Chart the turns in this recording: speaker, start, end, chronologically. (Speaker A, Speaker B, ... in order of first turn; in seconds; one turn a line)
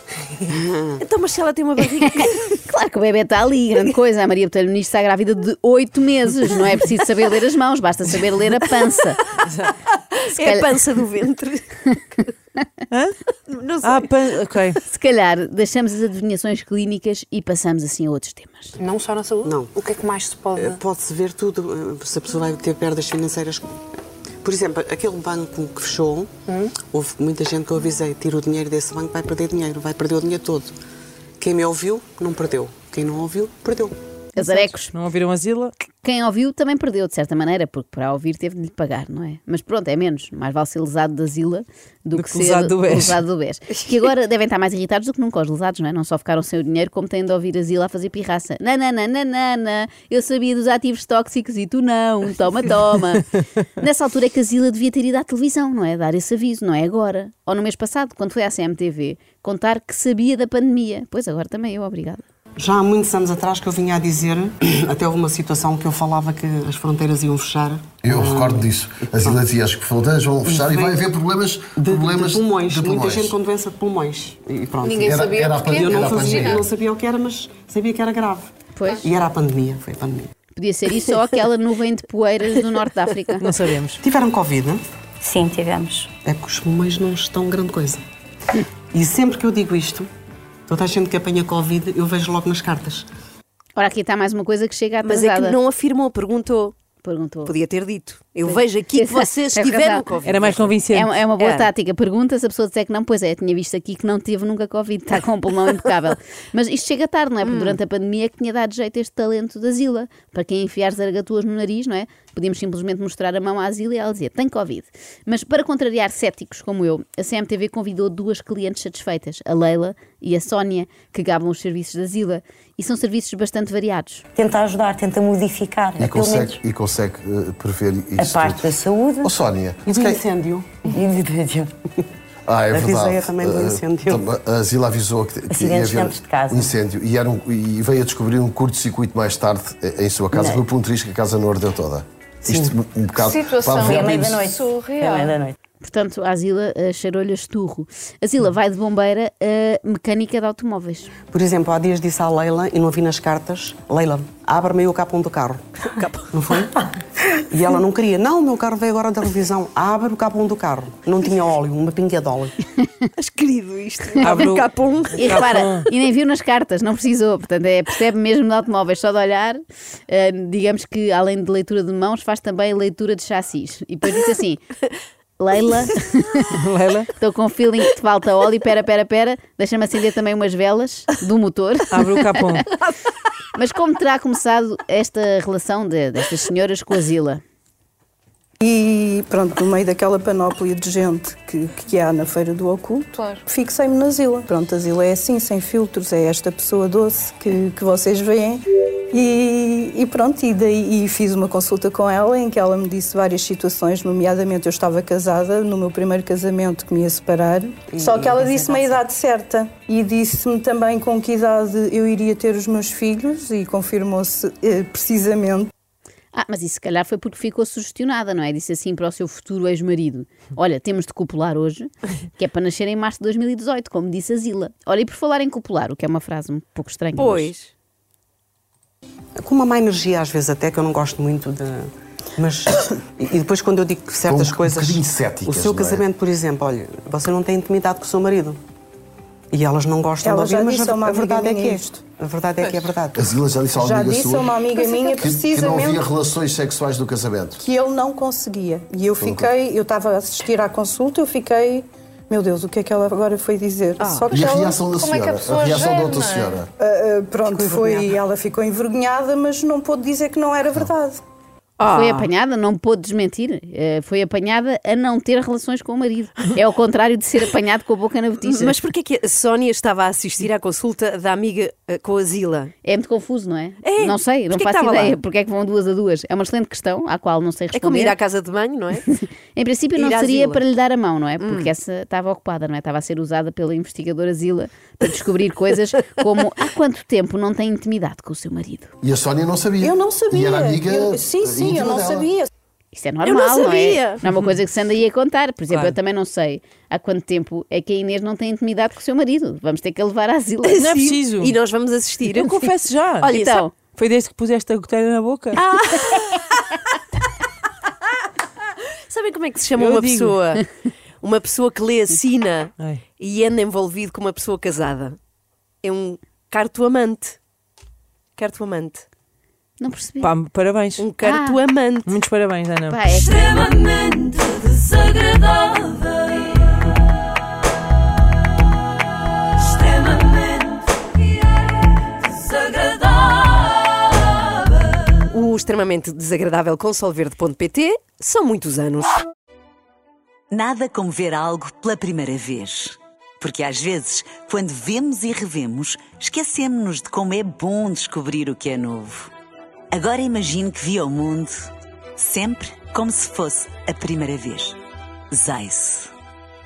Speaker A: 0.4-1.1
Speaker B: 1.0-2.5
Speaker C: 2.6-9.2
Speaker B: 9.9-12.3
Speaker C: 10.3-10.7
Speaker B: 13.5-14.1
Speaker D: 13.8-14.8
Speaker C: 14.9-18.8
Speaker E: 18.8-20.7
Speaker A: 19.4-19.7
Speaker A: 20.6-23.7
Speaker A: 24.4-30.7
Speaker A: 31.4-34.0
Speaker C: 34.4-34.9
Speaker D: 34.4-35.7
Speaker C: 36.0-53.3
Speaker D: 42.2-43.2
Speaker C: 53.8-62.2
Speaker A: 62.6-69.5
Speaker F: 68.0-73.3
Speaker A: 70.5-71.0
Speaker A: 71.8-80.3
Speaker E: 74.8-76.6
Speaker F: 75.0-76.7
Speaker C: 78.8-79.0
Speaker C: 80.5-83.5
Speaker D: 83.4-84.0
Speaker A: 84.0-84.8
Speaker G: 85.2-86.1
Speaker A: 86.2-88.0
Speaker A: 88.9-90.1
Speaker A: 90.7-93.1
Speaker C: 93.8-95.6
Speaker B: 95.0-96.8
Speaker C: 97.0-97.5
Speaker B: 97.5-100.7
Speaker C: 98.5-100.1
Speaker D: 100.2-101.1
Speaker C: 100.9-124.2
Speaker B: 101.4-101.7
Speaker B: 107.4-107.8
Speaker G: 124.4-126.6
Speaker F: 126.0-130.2
Speaker G: 128.2-129.3
Speaker A: 129.9-131.0
Speaker G: 130.9-131.7
Speaker F: 132.5-144.4
Speaker A: 132.7-134.3
Speaker G: 135.5-136.7
Speaker G: 140.3-140.6
Speaker E: 143.2-145.3
Speaker G: 143.9-145.6
Speaker C: 145.8-151.1
Speaker A: 151.3-155.7
Speaker B: 155.9-156.5
Speaker A: 156.3-162.6
Speaker B: 163.2-165.5
Speaker D: 164.2-165.9
Speaker C: 165.2-174.6
Speaker C: 175.4-176.5
Speaker D: 176.6-177.1
Speaker C: 177.2-182.7
Speaker D: 181.9-182.7
Speaker C: 183.6-187.4
Speaker H: 188.6-215.7
Speaker A: 207.9-209.0
Speaker C: 216.3-227.5
Speaker B: 227.2-227.7
Speaker A: 229.4-238.6
Speaker F: 234.3-236.1
Speaker A: 239.5-243.3
Speaker H: 240.2-242.0
Speaker F: 243.2-244.6
Speaker H: 243.7-246.1
Speaker F: 245.1-247.6
Speaker H: 247.6-254.8
Speaker F: 249.2-249.5
Speaker B: 254.0-254.3
Speaker F: 254.3-256.7
Speaker E: 254.9-256.5
Speaker H: 256.8-261.2
Speaker A: 257.4-258.2
Speaker B: 261.8-262.3
Speaker C: 261.9-268.8
Speaker B: 268.4-272.7
Speaker C: 272.8-278.2
Speaker B: 273.8-275.2
Speaker B: 277.7-279.1
Speaker C: 279.2-288.9
Speaker B: 280.0-280.6
Speaker B: 281.4-281.7
Speaker F: 289.0-292.3
Speaker H: 289.8-292.5
Speaker C: 292.9-300.9
Speaker B: 293.2-294.2
Speaker D: 295.7-295.9
Speaker B: 300.6-303.7
Speaker D: 300.8-301.6
Speaker D: 302.4-303.3
Speaker C: 303.3-303.7
Speaker D: 303.9-305.6
Speaker B: 305.6-306.4
Speaker B: 309.1-315.2
Speaker D: 309.8-310.4
Speaker B: 315.8-317.4
Speaker B: 318.4-319.1
Speaker C: 319.8-320.3
Speaker D: 320.2-321.1
Speaker B: 321.0-322.1
Speaker C: 321.2-321.6
Speaker D: 322.1-323.0
Speaker C: 322.9-323.6
Speaker B: 323.8-324.6
Speaker B: 335.2-339.2
Speaker I: 340.5-349.3
Speaker I: 349.9-354.8
Speaker I: 355.3-356.1